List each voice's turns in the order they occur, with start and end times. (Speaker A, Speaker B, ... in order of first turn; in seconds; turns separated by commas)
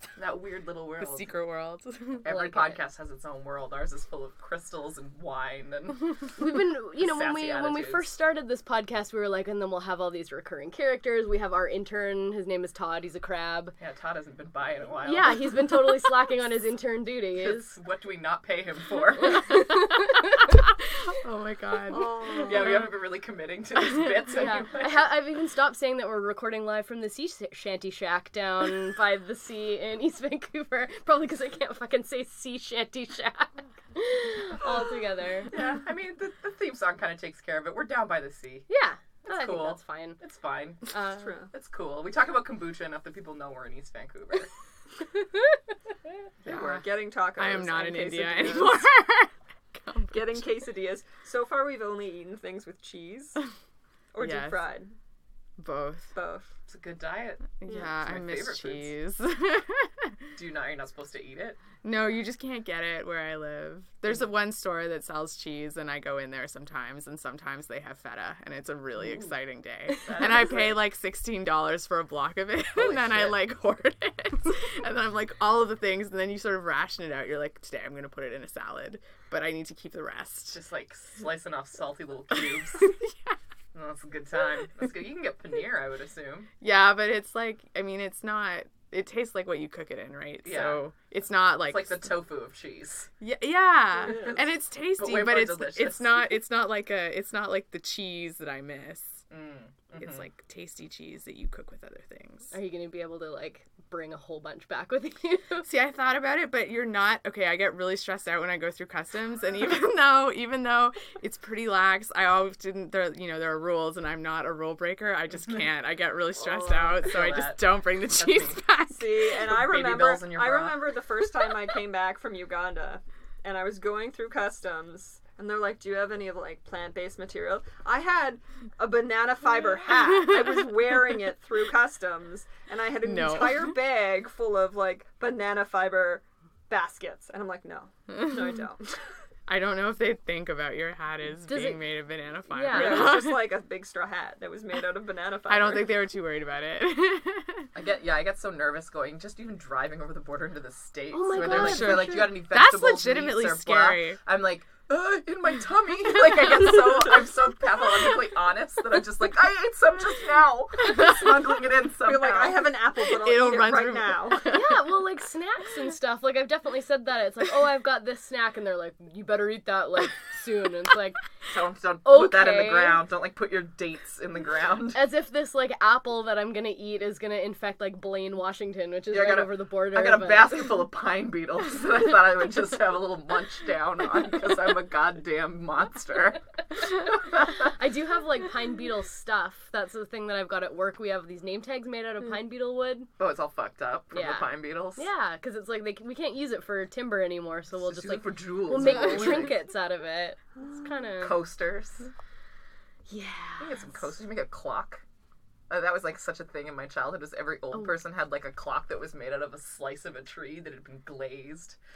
Speaker A: 0.2-1.3, Speaker B: 1.0-2.3, Speaker A: 2.2-8.1, Speaker C: 2.3-2.8, Speaker C: 6.4-13.8, Speaker A: 13.8-15.6, Speaker C: 15.0-17.7, Speaker A: 17.4-19.6, Speaker B: 19.5-22.3, Speaker D: 21.9-22.9, Speaker A: 22.4-25.1, Speaker B: 23.9-24.1, Speaker C: 24.3-35.6, Speaker D: 35.5-35.8, Speaker A: 35.5-38.7, Speaker C: 38.7-40.2, Speaker A: 39.3-40.9, Speaker C: 40.9-41.3, Speaker D: 41.2-41.5, Speaker A: 41.5-44.5, Speaker A: 46.4-46.8, Speaker B: 46.5-46.8, Speaker D: 46.5-48.8, Speaker B: 47.4-50.5, Speaker D: 50.1-53.4, Speaker D: 54.1-54.9, Speaker B: 54.2-54.6, Speaker B: 55.6-56.1, Speaker D: 56.1-56.5, Speaker A: 56.7-58.9, Speaker B: 57.6-60.2, Speaker D: 57.7-57.9, Speaker A: 60.4-61.6, Speaker B: 61.8-80.6, Speaker A: 69.9-70.8, Speaker A: 72.8-73.4, Speaker A: 80.5-83.0, Speaker B: 82.3-83.4, Speaker A: 83.7-86.5, Speaker B: 86.6-92.1, Speaker A: 90.4-90.9, Speaker A: 91.5-93.1, Speaker B: 93.2-99.2, Speaker D: 93.9-94.5, Speaker A: 95.0-96.3, Speaker A: 99.3-100.3, Speaker B: 100.0-102.5, Speaker C: 102.5-105.7, Speaker B: 105.6-119.4, Speaker D: 116.5-117.1, Speaker A: 116.6-118.6, Speaker D: 118.9-139.0, Speaker A: 119.4-120.8, Speaker B: 133.0-133.8, Speaker B: 139.5-143.5, Speaker C: 141.4-141.9, Speaker C: 142.5-143.2, Speaker D: 142.7-146.0, Speaker B: 145.5-147.7, Speaker A: 147.7-162.7, Speaker C: 151.1-152.4, Speaker B: 151.3-154.2, Speaker D: 162.0-164.5, Speaker B: 163.2-164.8, Speaker C: 164.5-171.2, Speaker A: 171.5-175.0, Speaker C: 172.1-173.1, Speaker C: 174.9-180.6, Speaker A: 179.1-186.4, Speaker C: 187.3-193.1, Speaker A: 193.2-195.1, Speaker C: 194.1-201.4, Speaker A: 197.8-199.6, Speaker A: 201.2-202.1, Speaker C: 203.1-204.0, Speaker A: 203.6-205.0, Speaker A: 205.7-211.8